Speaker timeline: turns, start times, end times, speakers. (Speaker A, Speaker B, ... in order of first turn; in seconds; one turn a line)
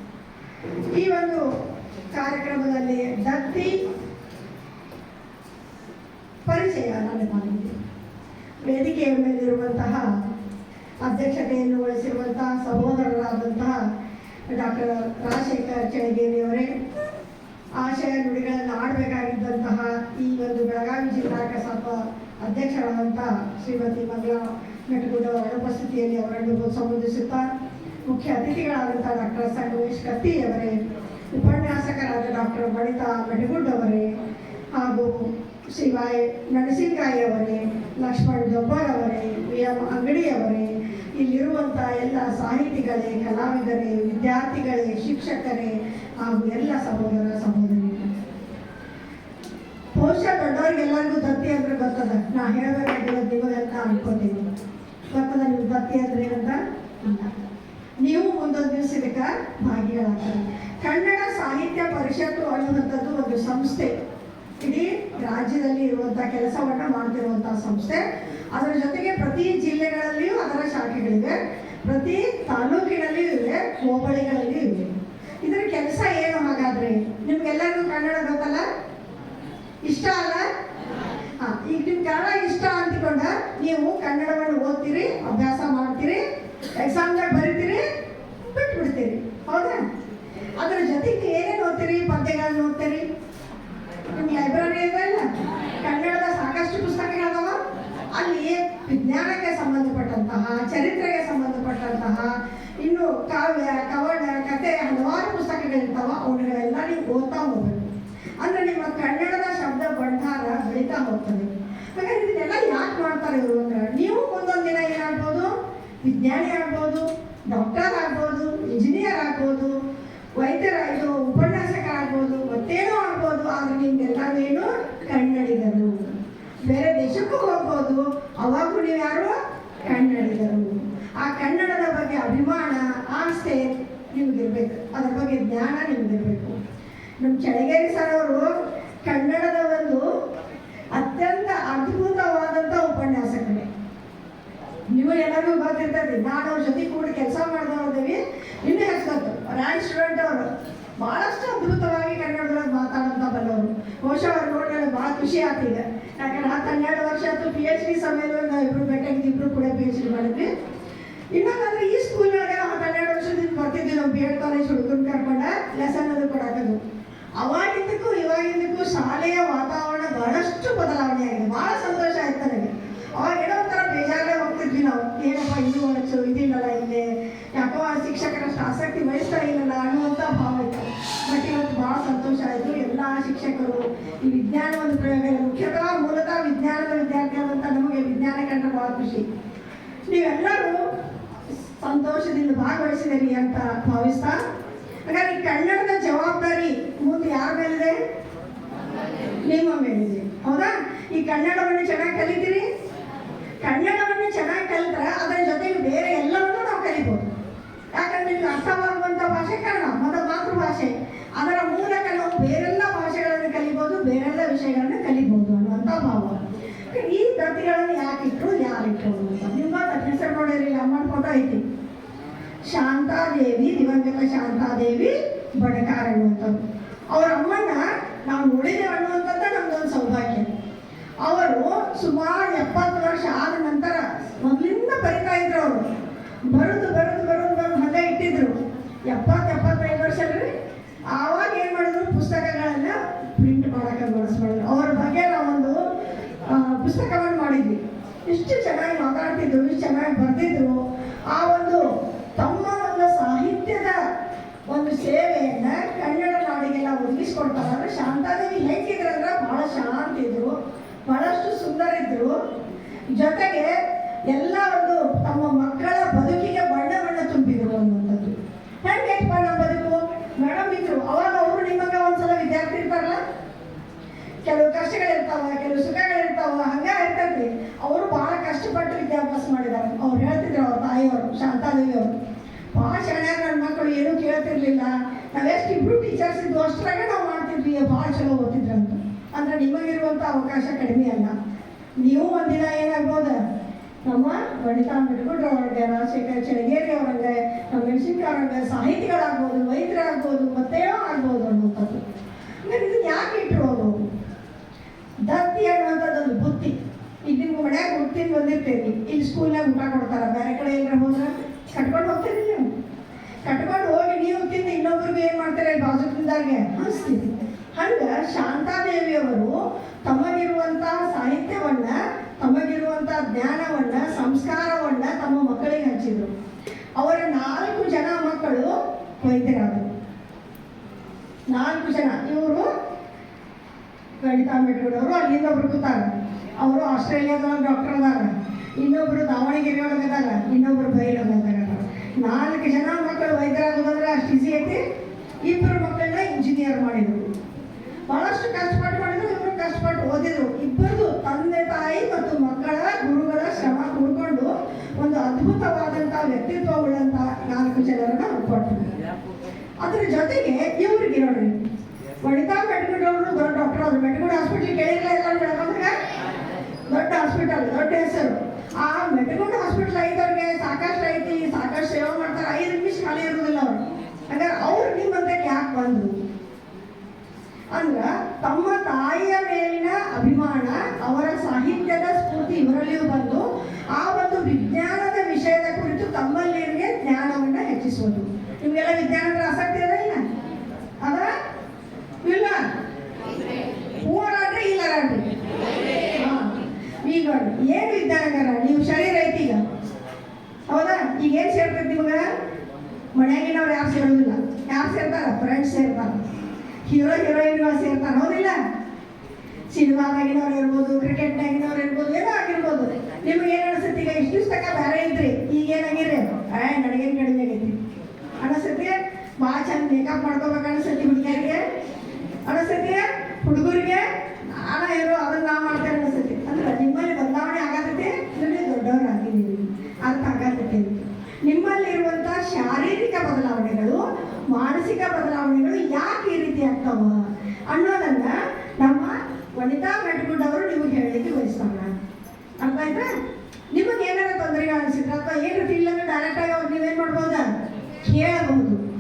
Speaker A: 1.0-1.4
Speaker A: 2.1-3.8
Speaker A: 6.5-7.8
Speaker A: 8.7-10.0
Speaker A: 11.0-13.8
Speaker A: 14.5-16.7
Speaker A: 17.8-27.5
Speaker A: 28.1-30.8
Speaker A: 31.3-34.1
Speaker A: 34.7-48.1
Speaker A: 50.0-54.5
Speaker A: 55.1-57.3
Speaker A: 58.0-63.9
Speaker A: 64.6-74.9
Speaker A: 75.4-78.7
Speaker A: 79.9-80.5
Speaker A: 81.4-86.2
Speaker A: 86.8-87.8
Speaker A: 88.4-89.8
Speaker A: 90.6-93.0
Speaker A: 94.1-95.2
Speaker A: 95.8-97.6
Speaker A: 98.2-107.9
Speaker A: 108.4-115.5
Speaker A: 116.0-119.7
Speaker A: 120.4-126.1
Speaker A: 126.6-136.6
Speaker A: 137.2-138.5
Speaker A: 139.1-140.0
Speaker A: 140.9-143.7
Speaker A: 144.9-150.5
Speaker A: 151.0-160.5
Speaker A: 161.3-166.8
Speaker A: 167.4-189.3
Speaker A: 190.1-190.8
Speaker A: 191.7-194.4
Speaker A: 195.1-198.0
Speaker A: 199.5-202.7
Speaker A: 203.6-207.3
Speaker A: 208.0-216.4
Speaker A: 216.9-221.6
Speaker A: 222.7-226.6
Speaker A: 227.1-230.5
Speaker A: 231.2-235.9
Speaker A: 236.5-238.6
Speaker A: 239.1-240.5
Speaker A: 241.1-245.8
Speaker A: 246.5-250.8
Speaker A: 251.3-254.0
Speaker A: 254.7-260.5
Speaker A: 261.1-262.3
Speaker A: 263.2-263.7
Speaker A: 264.3-273.2
Speaker A: 274.5-282.1
Speaker A: 282.7-291.3
Speaker A: 292.0-293.4
Speaker A: 294.1-302.0
Speaker A: 302.6-304.0
Speaker A: 305.3-306.8
Speaker A: 307.3-312.7
Speaker A: 313.4-319.5
Speaker A: 320.1-326.3
Speaker A: 327.0-329.9
Speaker A: 331.5-332.7
Speaker A: 334.2-344.8
Speaker A: 345.5-347.3
Speaker A: 348.1-358.9
Speaker A: 359.8-361.6
Speaker A: 362.2-365.9
Speaker A: 366.9-376.1
Speaker A: 377.8-390.2
Speaker A: 391.0-391.3
Speaker A: 392.2-392.7
Speaker A: 394.0-395.2
Speaker A: 396.1-399.6
Speaker A: 400.7-402.2
Speaker A: 403.1-406.2
Speaker A: 406.9-408.6
Speaker A: 409.7-417.8
Speaker A: 418.4-421.6
Speaker A: 422.5-441.9
Speaker A: 442.6-443.1
Speaker A: 443.7-447.5
Speaker A: 448.0-448.8